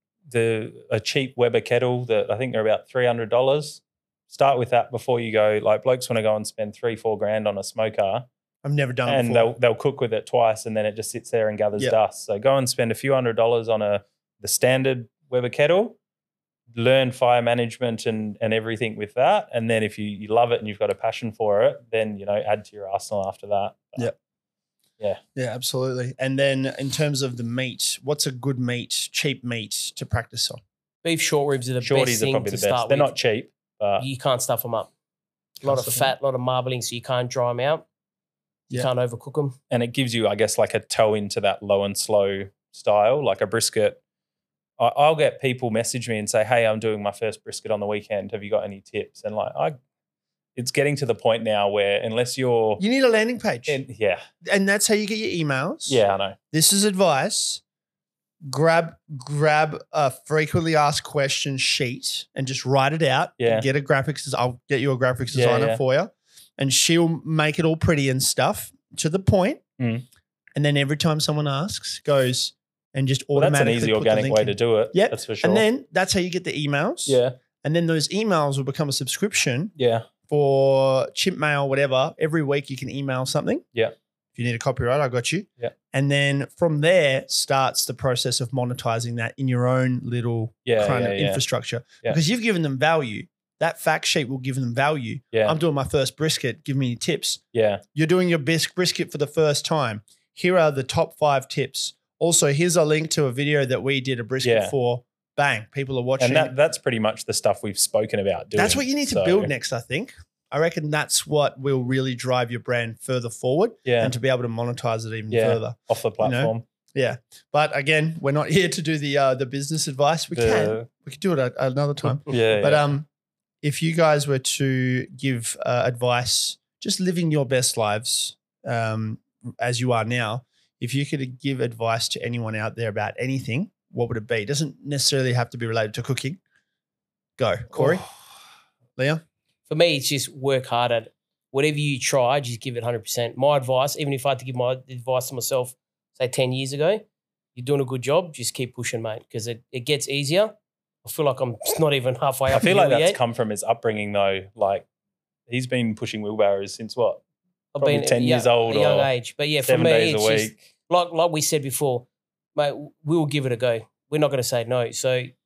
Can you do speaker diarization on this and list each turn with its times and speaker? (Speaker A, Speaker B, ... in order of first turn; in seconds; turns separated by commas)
Speaker A: 0.3-8.3, Speaker B: 8.6-9.5, Speaker A: 9.1-16.0, Speaker A: 16.7-24.1, Speaker B: 25.4-30.6, Speaker C: 31.0-33.1, Speaker A: 31.8-34.1, Speaker C: 34.0-34.9, Speaker B: 35.6-36.1, Speaker C: 35.6-37.9, Speaker C: 38.7-39.6, Speaker A: 39.7-44.0, Speaker A: 44.8-49.8, Speaker A: 50.6-52.8, Speaker B: 52.8-53.8, Speaker A: 53.7-54.2, Speaker B: 54.4-56.0, Speaker A: 55.9-56.4, Speaker B: 56.5-57.6, Speaker B: 58.5-69.6, Speaker A: 63.4-63.7, Speaker A: 65.3-65.8, Speaker A: 69.8-70.1, Speaker B: 70.5-79.7, Speaker A: 73.4-75.6, Speaker A: 77.1-77.3, Speaker A: 79.8-80.1, Speaker B: 80.3-83.7, Speaker B: 84.3-97.4, Speaker A: 90.7-91.4, Speaker A: 97.5-97.8, Speaker B: 97.9-106.5, Speaker A: 104.4-104.7, Speaker A: 106.2-109.5, Speaker B: 108.5-123.1, Speaker A: 113.8-114.1, Speaker A: 115.3-116.6, Speaker A: 120.3-120.9, Speaker A: 122.3-122.8, Speaker B: 123.6-136.4, Speaker B: 137.4-138.1, Speaker B: 139.0-139.2, Speaker C: 139.7-153.2, Speaker A: 152.5-154.8, Speaker A: 155.5-157.2, Speaker C: 157.8-165.3, Speaker A: 157.8-159.1, Speaker A: 159.6-160.6